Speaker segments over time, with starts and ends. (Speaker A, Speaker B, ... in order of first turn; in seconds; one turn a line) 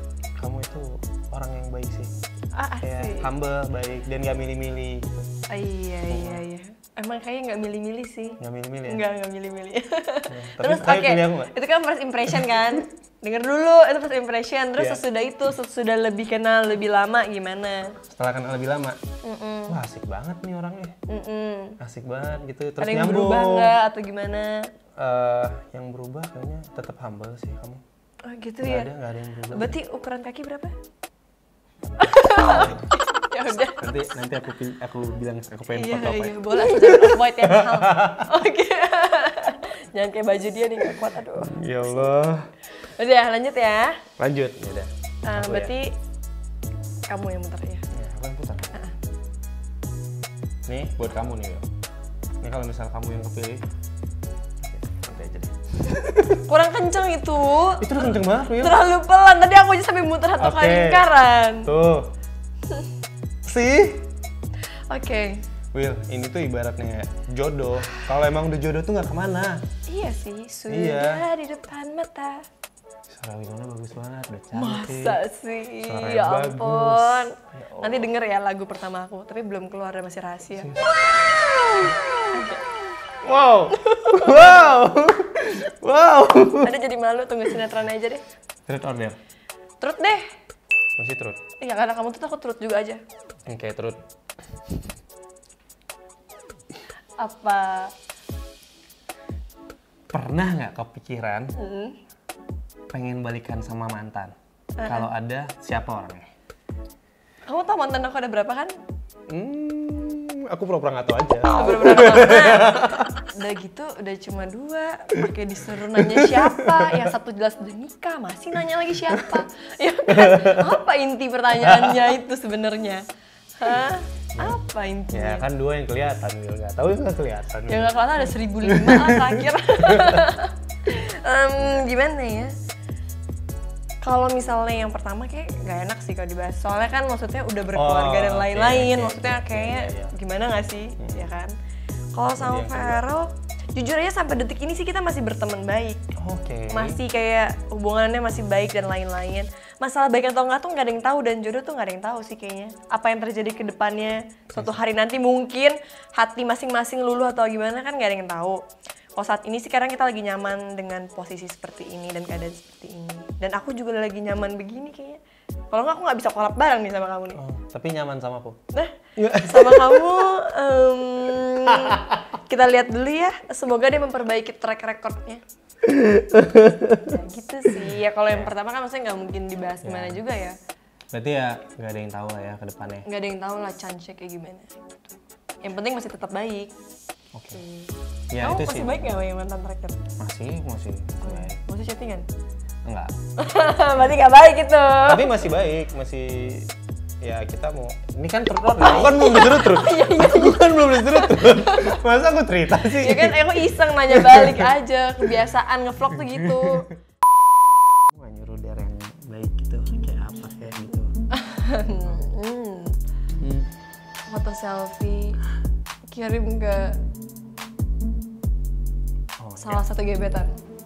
Speaker A: 0.4-2.1
Speaker B: 2.5-3.3
Speaker A: 2.8-5.3
Speaker B: 5.5-17.9
Speaker A: 6.1-6.4
Speaker A: 8.4-9.0
Speaker A: 10.3-11.5
Speaker A: 14.8-15.0
Speaker A: 18.1-19.0
Speaker B: 19.2-19.8
Speaker A: 19.7-20.9
Speaker B: 21.1-21.8
Speaker A: 21.8-23.8
Speaker B: 22.8-24.7
Speaker A: 25.0-27.8
Speaker B: 28.3-28.9
Speaker A: 28.6-29.8
Speaker B: 29.5-30.7
Speaker B: 32.0-33.9
Speaker A: 32.0-32.9
Speaker A: 33.7-38.3
Speaker B: 35.7-42.0
Speaker A: 41.4-42.5
Speaker B: 42.8-44.0
Speaker A: 44.2-45.7
Speaker B: 45.2-45.9
Speaker B: 47.1-47.8
Speaker A: 47.9-48.7
Speaker A: 50.7-51.6
Speaker A: 52.4-53.6
Speaker A: 54.6-56.4
Speaker B: 56.4-61.7
Speaker A: 57.8-58.8
Speaker A: 60.4-61.1
Speaker A: 61.6-62.1
Speaker A: 63.4-64.1
Speaker B: 64.9-65.4
Speaker A: 65.7-69.6
Speaker B: 69.9-72.4
Speaker A: 70.7-71.2
Speaker A: 73.1-75.2
Speaker B: 74.5-80.7
Speaker A: 75.8-78.1
Speaker A: 80.6-81.0
Speaker B: 82.3-82.6
Speaker A: 83.2-86.8
Speaker B: 83.7-84.8
Speaker B: 86.6-88.2
Speaker A: 88.7-89.2
Speaker B: 89.8-90.3
Speaker A: 91.0-91.4
Speaker B: 91.6-93.0
Speaker A: 93.5-94.0
Speaker B: 97.2-97.9
Speaker A: 100.1-101.5
Speaker B: 101.6-102.0
Speaker A: 102.9-104.3
Speaker B: 104.8-105.1
Speaker A: 104.8-106.3
Speaker B: 107.5-108.7
Speaker A: 109.3-113.1
Speaker B: 111.5-123.0
Speaker A: 115.8-117.1
Speaker A: 119.1-119.4
Speaker A: 120.1-120.8
Speaker A: 121.5-122.2
Speaker B: 123.6-125.5
Speaker A: 125.1-130.3
Speaker B: 127.7-132.5
Speaker B: 134.0-141.5
Speaker A: 137.8-140.1
Speaker A: 141.0-141.3
Speaker B: 142.1-146.0
Speaker A: 142.3-143.1
Speaker A: 146.2-147.0
Speaker B: 146.7-158.6
Speaker A: 154.5-154.8
Speaker B: 159.2-165.2
Speaker B: 165.7-167.4
Speaker A: 167.3-168.6
Speaker B: 168.7-175.4
Speaker A: 169.2-170.3
Speaker A: 171.7-172.2
Speaker A: 175.8-178.5
Speaker B: 177.0-180.6
Speaker A: 179.8-180.2
Speaker A: 181.1-183.1
Speaker B: 183.1-186.7
Speaker A: 187.3-187.6
Speaker B: 187.5-190.0
Speaker A: 188.3-189.1
Speaker A: 190.2-191.6
Speaker B: 191.2-192.3
Speaker A: 192.8-193.1
Speaker B: 193.4-195.3
Speaker A: 195.1-196.7
Speaker A: 197.2-204.7
Speaker B: 198.8-202.0
Speaker B: 202.8-206.9
Speaker A: 206.1-206.9
Speaker A: 208.1-211.1
Speaker B: 211.3-213.0
Speaker A: 211.9-212.2
Speaker A: 213.4-213.7
Speaker B: 214.3-215.4
Speaker B: 216.1-216.9
Speaker A: 219.4-219.8
Speaker B: 219.6-220.6